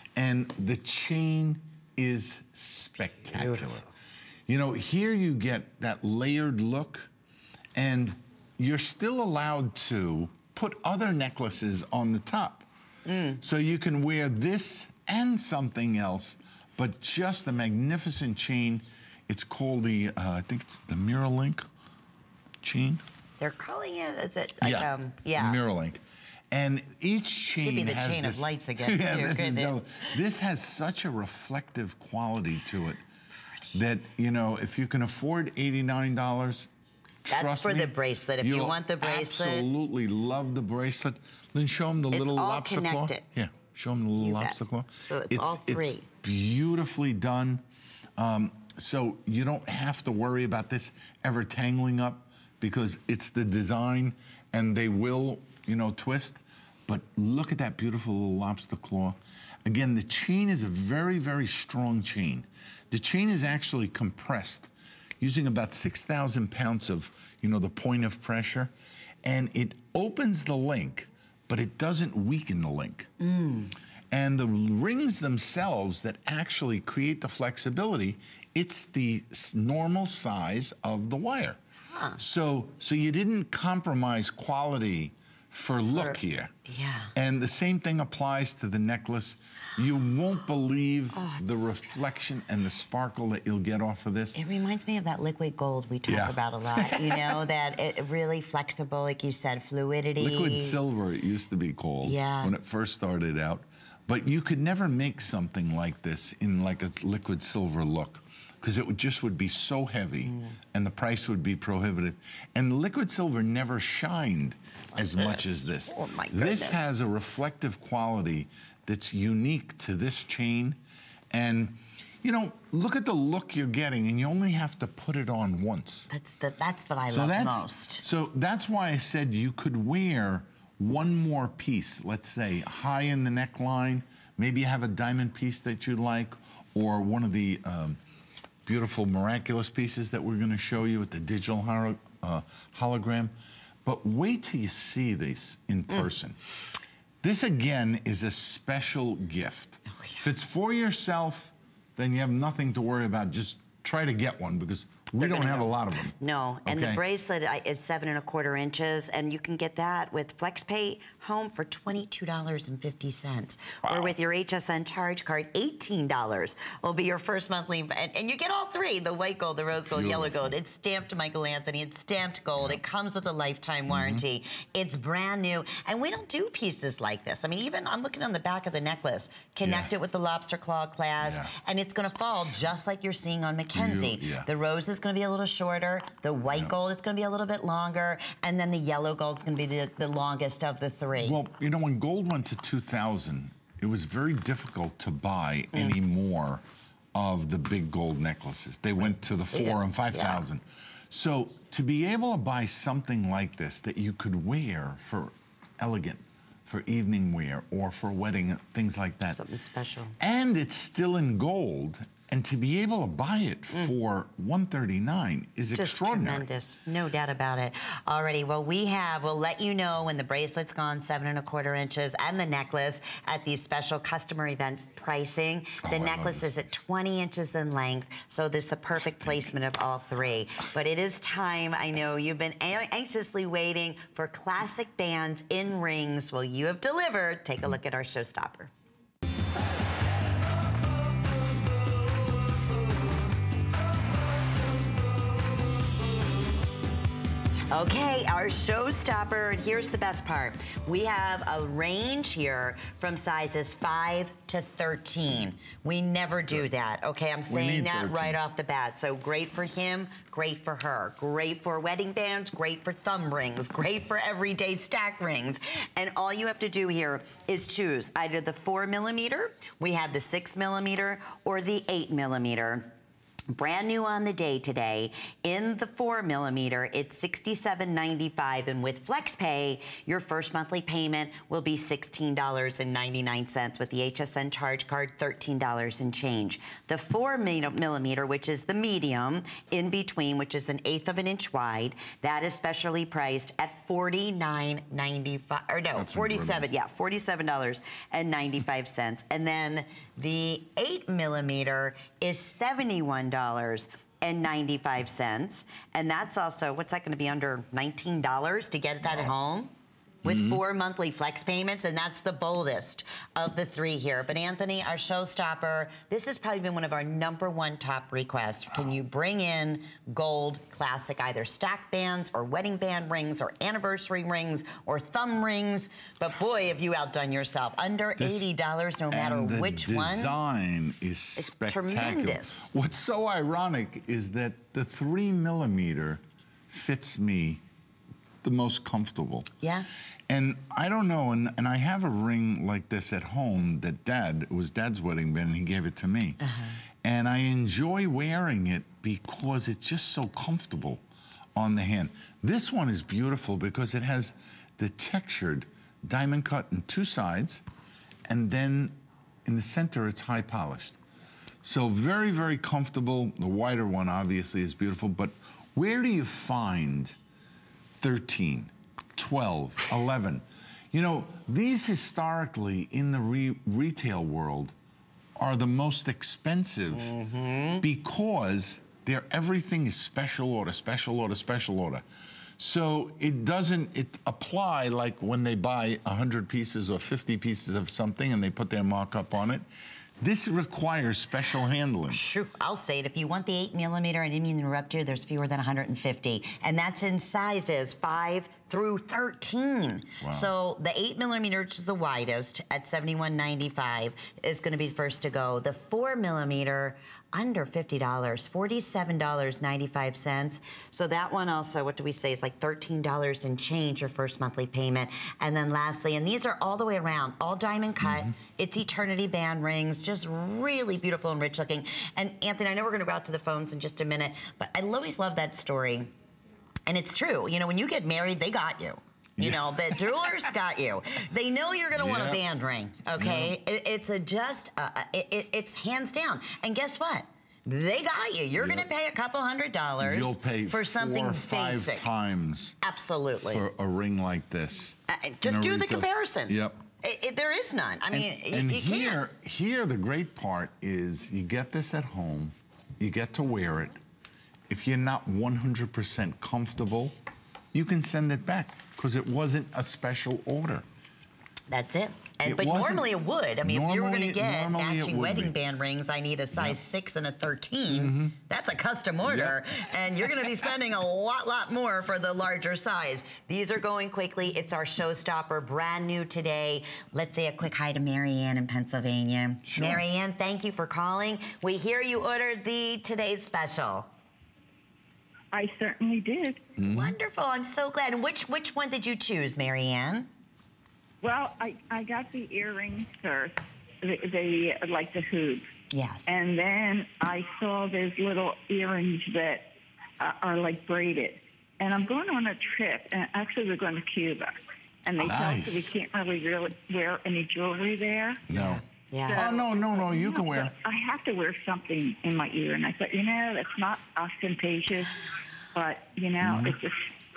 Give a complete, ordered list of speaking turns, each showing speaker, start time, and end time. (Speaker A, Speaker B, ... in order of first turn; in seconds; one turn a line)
Speaker A: 0.2-3.9
Speaker B: 3.3-3.7
Speaker A: 4.5-7.1
Speaker A: 7.8-12.7
Speaker B: 13.1-13.4
Speaker A: 13.4-21.7
Speaker A: 22.6-23.0
Speaker B: 23.4-25.6
Speaker A: 24.6-33.0
Speaker B: 27.6-29.8
Speaker A: 33.7-36.7
Speaker A: 37.3-47.6
Speaker B: 37.3-39.7
Speaker B: 42.1-43.2
Speaker B: 44.2-46.1
Speaker A: 48.2-68.7
Speaker A: 69.2-73.1
Speaker B: 73.2-73.7
Speaker A: 74.1-81.6
Speaker B: 81.9-82.2
Speaker A: 82.2-86.5
Speaker B: 86.0-87.1
Speaker A: 87.1-94.4
Speaker B: 91.1-91.7
Speaker B: 94.3-100.8
Speaker A: 96.1-97.4
Speaker A: 100.2-120.8
Speaker B: 102.0-102.5
Speaker B: 110.2-110.6
Speaker B: 115.0-116.8
Speaker A: 121.3-126.1
Speaker B: 126.1-128.0
Speaker A: 127.1-138.0
Speaker A: 138.7-143.3
Speaker A: 143.8-146.4
Speaker A: 147.2-157.0
Speaker B: 155.2-191.4
Speaker A: 163.9-164.1
Speaker A: 169.8-170.6
Speaker A: 173.9-174.2
Speaker A: 179.6-179.9
Speaker A: 181.2-181.5
Speaker A: 183.7-184.5
Speaker A: 191.2-196.6
Speaker A: 197.1-209.4
Speaker B: 199.3-200.4
Speaker B: 209.3-210.2
Speaker A: 210.2-216.5
Speaker B: 215.7-238.7
Speaker A: 225.8-226.8
Speaker B: 247.7-272.9
Speaker A: 257.5-258.4
Speaker B: 273.5-309.7
Speaker A: 295.9-296.7
Speaker B: 310.2-330.3
Speaker A: 310.2-310.6
Speaker A: 328.2-328.5
Speaker A: 329.1-337.6
Speaker B: 331.4-332.7
Speaker A: 338.4-339.5
Speaker B: 339.6-339.9
Speaker A: 340.3-346.4
Speaker B: 346.4-346.8
Speaker A: 347.0-351.0
Speaker A: 351.6-357.6
Speaker A: 358.3-361.0
Speaker A: 361.6-367.2
Speaker A: 368.0-374.7
Speaker A: 375.4-377.1
Speaker B: 376.9-377.8
Speaker A: 377.8-382.0
Speaker A: 382.6-389.7
Speaker A: 390.2-392.2
Speaker B: 392.1-426.1
Speaker A: 400.2-400.5
Speaker A: 418.1-418.3
Speaker B: 426.9-442.1
Speaker A: 429.4-429.7
Speaker A: 431.9-432.4
Speaker A: 433.1-433.6
Speaker A: 438.6-438.9
Speaker A: 440.0-442.8
Speaker B: 442.8-443.6
Speaker A: 443.5-446.8
Speaker B: 445.1-449.2
Speaker A: 448.1-454.0
Speaker A: 454.7-457.1
Speaker A: 457.7-460.9
Speaker B: 461.7-484.1
Speaker A: 462.4-465.6
Speaker A: 467.9-468.4
Speaker A: 469.2-469.6
Speaker A: 479.7-480.0
Speaker C: 485.5-486.6
Speaker A: 486.8-487.1
Speaker B: 486.9-490.3
Speaker C: 491.2-495.7
Speaker B: 495.9-496.3
Speaker C: 496.3-508.4
Speaker A: 505.2-505.9
Speaker A: 508.5-508.8
Speaker B: 508.5-509.5
Speaker C: 509.3-515.1
Speaker A: 509.3-510.7
Speaker C: 515.7-517.0
Speaker A: 516.4-516.8